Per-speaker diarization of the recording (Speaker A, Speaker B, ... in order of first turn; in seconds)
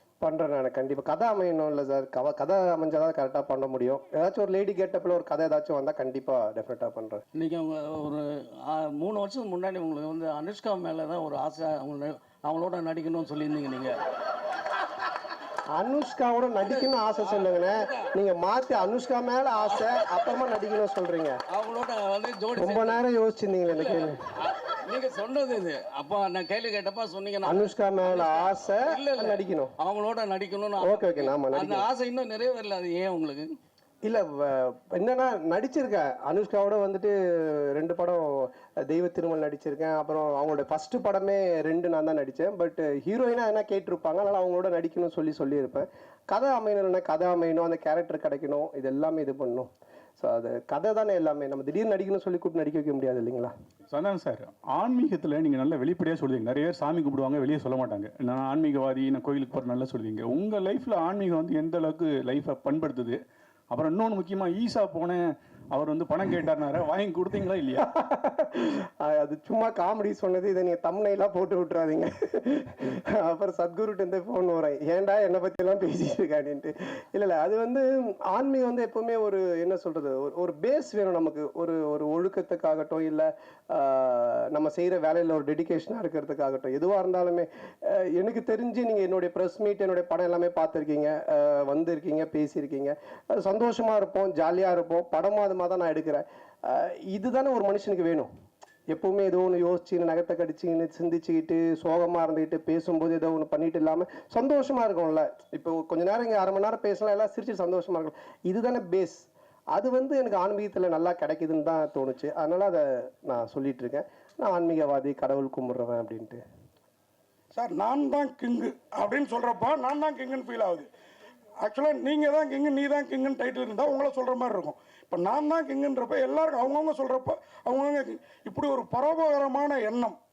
Speaker A: 0.2-7.2, 15.7-21.4, 22.6-24.2, 27.4-29.7, 30.8-31.8, 34.0-53.5, 67.8-98.3, 98.9-116.4
Speaker B: 7.3-14.0, 16.6-18.1, 21.5-23.0, 23.7-33.5
Speaker C: 53.9-63.2, 63.7-65.2, 65.7-67.8
Speaker D: 117.5-120.9, 121.6-130.2